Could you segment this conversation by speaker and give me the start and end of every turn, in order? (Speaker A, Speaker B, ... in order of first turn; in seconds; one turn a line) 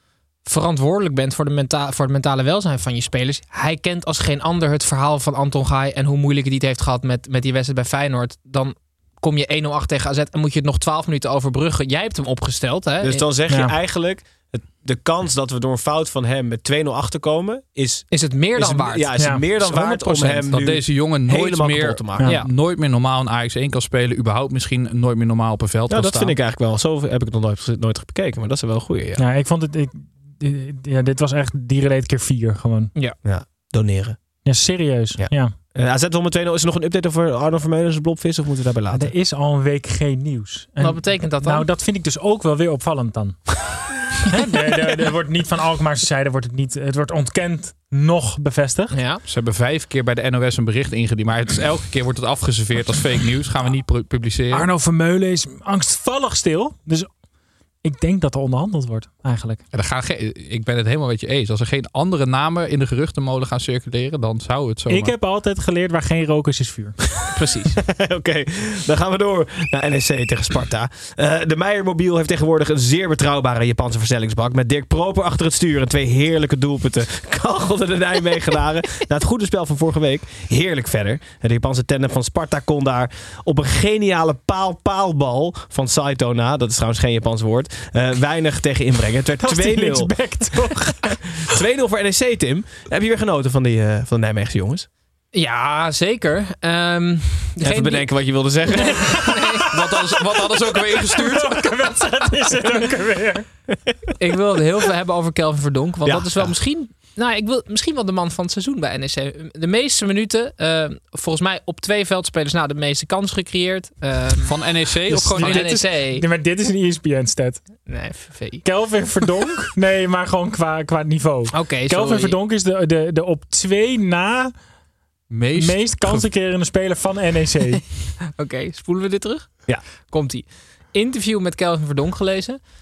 Speaker A: 0.4-13.2
Speaker B: 13.0-22.3
Speaker C: 13.5-13.7
Speaker A: 18.1-19.4
Speaker C: 19.2-19.4
Speaker D: 19.6-26.3
Speaker B: 25.9-29.2
Speaker C: 29.2-32.9
Speaker B: 33.2-34.2
Speaker C: 34.4-35.5
Speaker B: 35.2-39.1
Speaker C: 38.9-43.6
Speaker A: 40.8-41.7
Speaker C: 44.2-48.9
Speaker A: 48.9-49.2
Speaker D: 49.3-54.7
Speaker C: 54.5-57.1
Speaker C: 57.8-59.6
Speaker D: 59.7-65.1
Speaker C: 64.9-67.0
Speaker A: 67.3-67.7
Speaker B: 67.8-90.3
Speaker C: 89.4-91.2
Speaker B: 91.4-94.9
Speaker A: 95.3-98.3
Speaker B: 97.6-99.2
Speaker A: 98.9-99.7
Speaker D: 99.7-101.7
Speaker C: 101.1-103.5
Speaker A: 104.2-116.2
Speaker B: 106.0-106.6
Speaker D: 114.4-115.8
Speaker C: 115.1-117.8
Speaker A: 117.8-118.6
Speaker C: 118.6-124.5
Speaker A: 121.5-122.3
Speaker D: 125.3-126.3
Speaker C: 125.5-127.8
Speaker A: 128.4-132.6